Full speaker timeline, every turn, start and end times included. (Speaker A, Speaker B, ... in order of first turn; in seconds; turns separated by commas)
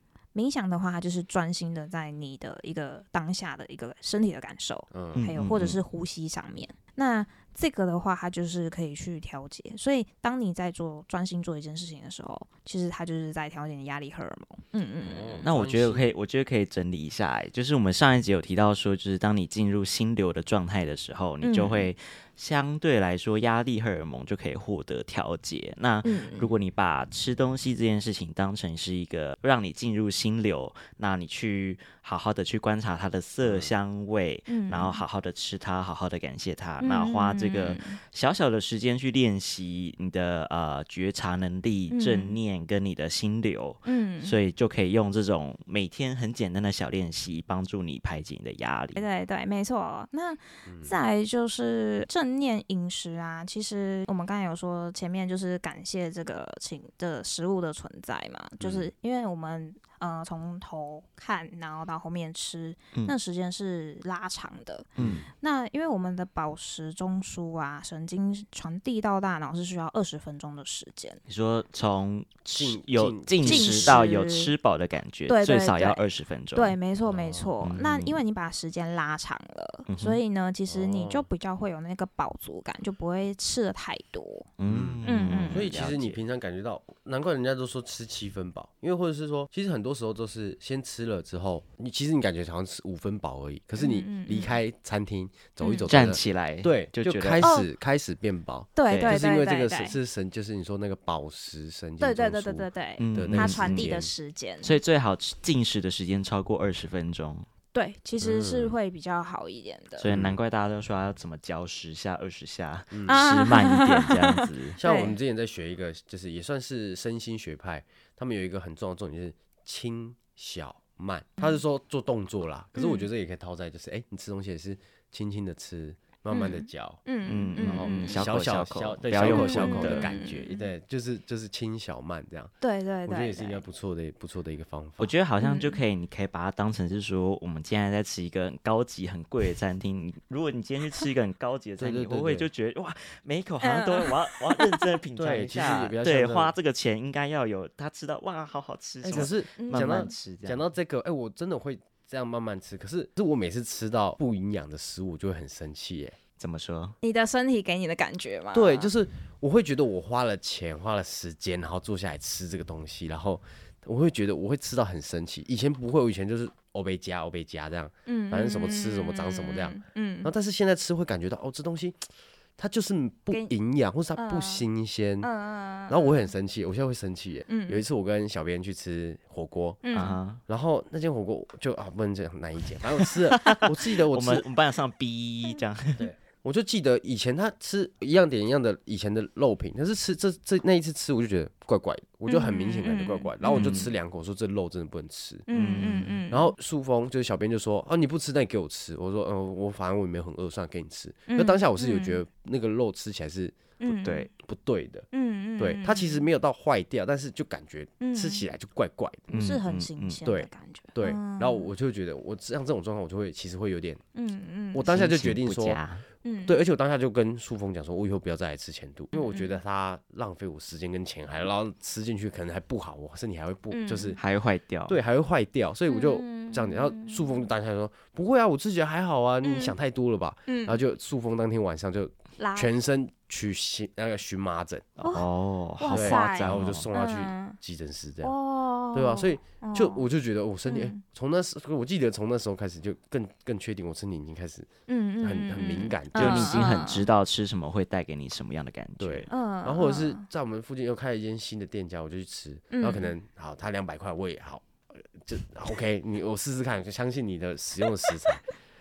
Speaker A: 0.3-15.5, Speaker B: 4.9-5.2, Speaker C: 5.1-5.8, Speaker B: 15.0-16.1, Speaker C: 15.4-49.0, Speaker A: 21.4-21.9, Speaker A: 26.0-26.5, Speaker B: 33.4-33.7, Speaker A: 34.5-35.0, Speaker A: 36.8-38.0, Speaker A: 41.9-42.4, Speaker A: 43.8-44.4, Speaker A: 48.9-64.9, Speaker B: 50.6-51.0, Speaker B: 58.6-58.9, Speaker C: 65.0-65.2, Speaker B: 65.0-65.3, Speaker A: 65.4-71.2, Speaker C: 71.2-76.8, Speaker B: 72.5-74.1, Speaker A: 73.4-74.5, Speaker A: 75.3-84.5, Speaker B: 77.0-77.5, Speaker C: 77.6-78.2, Speaker C: 79.9-80.2, Speaker B: 80.7-81.3, Speaker C: 84.6-86.2, Speaker B: 84.7-104.1, Speaker A: 85.0-85.7, Speaker A: 93.8-94.6, Speaker A: 95.6-95.9, Speaker C: 95.8-97.5, Speaker A: 97.4-97.7, Speaker A: 98.8-100.0, Speaker C: 98.9-99.2, Speaker A: 102.0-104.8, Speaker C: 103.0-104.0, Speaker C: 104.6-107.5, Speaker A: 107.7-110.1, Speaker B: 108.2-108.8, Speaker C: 110.0-114.8, Speaker B: 110.0-110.4, Speaker B: 112.9-113.3, Speaker A: 113.1-115.1, Speaker B: 114.8-135.1, Speaker A: 122.7-123.1, Speaker A: 126.3-128.2, Speaker C: 127.2-130.1, Speaker A: 129.2-130.7, Speaker A: 132.6-133.6, Speaker C: 135.0-150.7, Speaker A: 135.4-135.8, Speaker B: 141.8-142.5, Speaker A: 143.6-144.9, Speaker B: 145.2-146.5, Speaker B: 149.0-156.2, Speaker A: 149.1-150.1, Speaker C: 156.4-156.9, Speaker A: 157.0-158.9, Speaker B: 158.5-172.1, Speaker A: 168.1-170.3, Speaker B: 172.6-175.3, Speaker A: 174.1-174.7, Speaker A: 175.2-176.3, Speaker B: 175.9-184.4, Speaker A: 177.5-177.8, Speaker A: 179.8-180.2, Speaker C: 179.9-180.4, Speaker C: 183.3-186.1, Speaker B: 186.0-195.5, Speaker A: 192.3-193.7, Speaker C: 193.4-193.9, Speaker A: 195.5-196.5, Speaker C: 195.5-196.2, Speaker B: 196.3-205.1, Speaker A: 201.3-202.2, Speaker A: 203.8-204.3, Speaker A: 205.1-206.2, Speaker B: 205.6-209.4, Speaker A: 208.0-208.4, Speaker A: 209.3-211.7, Speaker C: 209.3-210.2, Speaker B: 210.2-214.0, Speaker A: 214.1-214.9, Speaker B: 214.7-215.8, Speaker C: 214.9-216.0, Speaker A: 216.2-216.6, Speaker B: 216.4-224.2, Speaker A: 219.1-219.6, Speaker A: 223.7-224.2, Speaker C: 224.2-225.0, Speaker B: 224.9-235.0, Speaker A: 225.9-227.5, Speaker A: 229.4-229.7, Speaker A: 230.5-230.8, Speaker A: 232.4-232.7, Speaker C: 235.0-236.9, Speaker A: 235.0-235.3, Speaker A: 235.8-237.6, Speaker B: 235.9-238.3, Speaker A: 238.2-240.1, Speaker B: 238.9-244.7, Speaker A: 240.6-241.0, Speaker A: 244.9-247.1, Speaker B: 245.2-246.7, Speaker C: 246.1-249.3, Speaker B: 249.0-258.4, Speaker A: 249.3-250.2, Speaker A: 252.7-253.1